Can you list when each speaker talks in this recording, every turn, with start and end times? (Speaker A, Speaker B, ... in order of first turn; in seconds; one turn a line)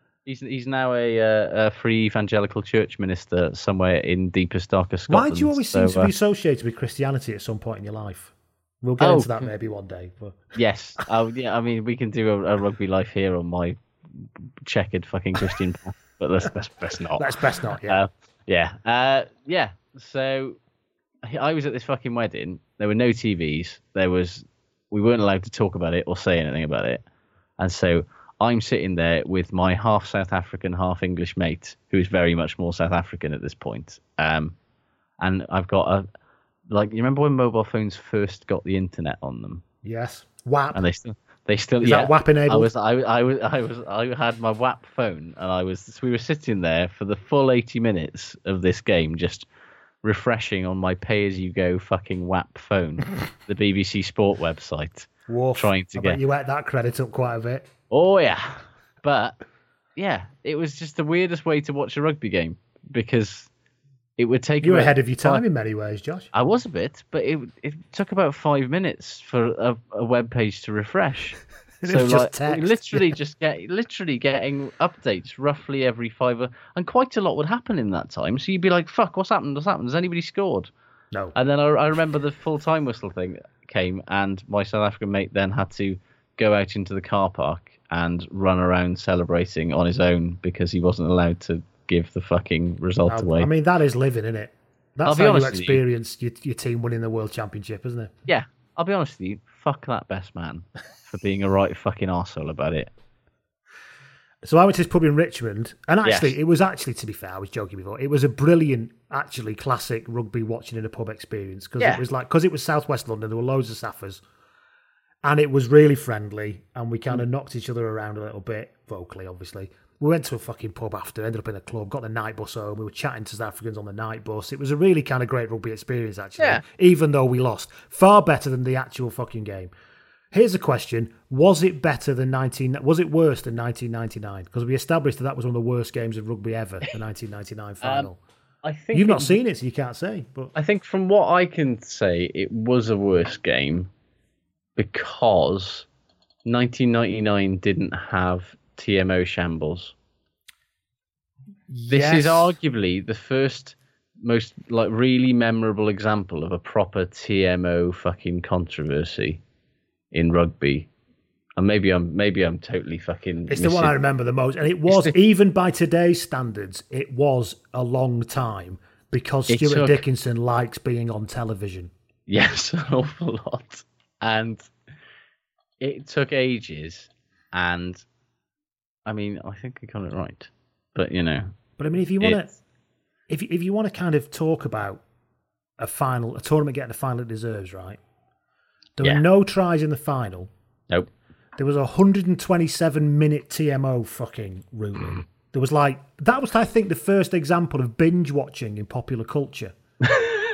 Speaker A: 0.2-6.1
Speaker B: 5.1-10.4
Speaker A: 9.0-9.5
Speaker A: 10.5-20.6
Speaker B: 17.2-18.0
Speaker A: 21.2-27.0
Speaker A: 27.6-34.5
Speaker A: 35.2-36.0
Speaker A: 36.7-39.6
Speaker B: 39.8-40.8
Speaker A: 40.7-49.5
Speaker B: 41.8-42.7
Speaker A: 50.0-56.2
Speaker B: 55.3-57.7
Speaker A: 57.9-59.4
Speaker A: 60.0-63.5
Speaker A: 64.2-65.4
Speaker B: 64.6-66.3
Speaker A: 66.3-80.7
Speaker B: 71.8-73.0
Speaker A: 81.3-93.5
Speaker B: 93.1-98.1
Speaker A: 95.0-95.8
Speaker A: 98.3-102.9
Speaker B: 104.4-114.2
Speaker A: 106.0-106.3
Speaker B: 115.2-129.7
Speaker B: 130.3-138.2
Speaker A: 137.8-138.1
Speaker A: 138.6-139.4
Speaker B: 138.9-140.5
Speaker A: 140.5-143.9
Speaker A: 144.8-145.9
Speaker A: 146.4-149.9
Speaker B: 151.7-152.5
Speaker A: 151.9-159.4
Speaker A: 160.1-160.9
Speaker A: 161.6-163.9
Speaker B: 163.5-171.9
Speaker A: 164.9-165.1
Speaker A: 169.5-170.0
Speaker A: 172.3-174.6
Speaker A: 175.8-178.0
Speaker A: 179.1-181.5
Speaker B: 181.8-182.5
Speaker B: 183.3-185.0
Speaker B: 185.8-188.0
Speaker B: 189.0-190.5
Speaker B: 191.6-199.7